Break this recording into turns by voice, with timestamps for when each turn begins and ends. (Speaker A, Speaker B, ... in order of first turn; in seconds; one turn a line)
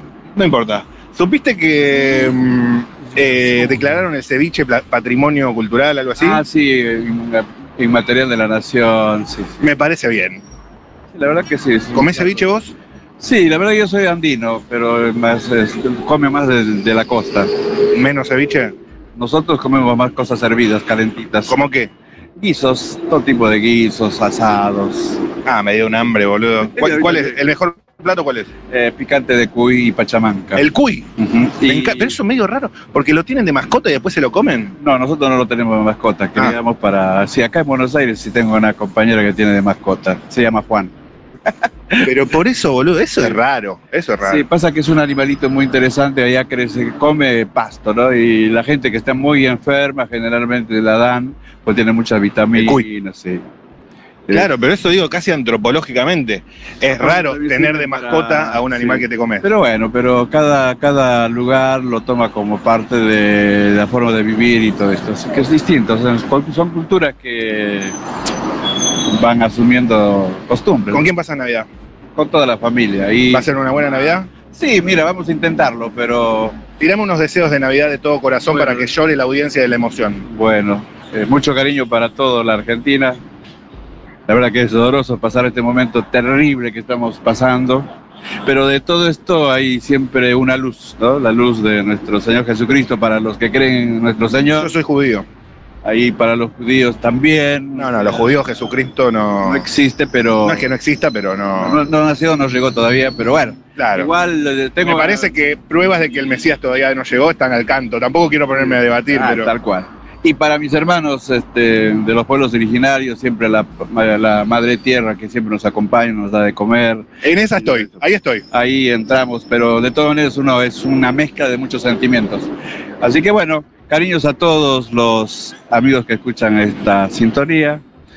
Speaker A: 0.3-6.4
Speaker B: 6.2-9.6
Speaker A: 9.6-10.4
Speaker B: 11.1-12.5
Speaker A: 11.9-12.7
Speaker B: 13.2-17.5
Speaker A: 17.9-18.8
Speaker B: 19.1-21.6
Speaker A: 21.5-21.9
Speaker B: 22.4-25.2
Speaker A: 25.5-28.5
Speaker B: 26.8-27.4
Speaker B: 28.7-30.7
Speaker A: 30.6-31.1
Speaker B: 31.2-32.2
Speaker A: 31.7-34.8
Speaker B: 34.8-40.9
Speaker A: 42.0-44.5
Speaker B: 44.2-53.4
Speaker A: 52.6-52.9
Speaker A: 54.3-59.5
Speaker B: 57.0-67.9
Speaker B: 69.1-71.1
Speaker A: 70.9-71.7
Speaker B: 72.2-76.6
Speaker A: 73.3-74.3
Speaker A: 76.8-80.2
Speaker B: 78.5-78.9
Speaker B: 80.3-83.2
Speaker B: 84.3-87.9
Speaker B: 88.5-94.7
Speaker A: 94.6-95.2
Speaker B: 95.8-98.4
Speaker A: 97.8-99.6
Speaker B: 99.4-100.7
Speaker A: 100.4-101.8
Speaker B: 101.6-105.3
Speaker A: 103.8-104.1
Speaker A: 104.8-109.5
Speaker B: 108.5-118.0
Speaker A: 117.2-118.5
Speaker B: 118.5-122.5
Speaker B: 123.0-127.8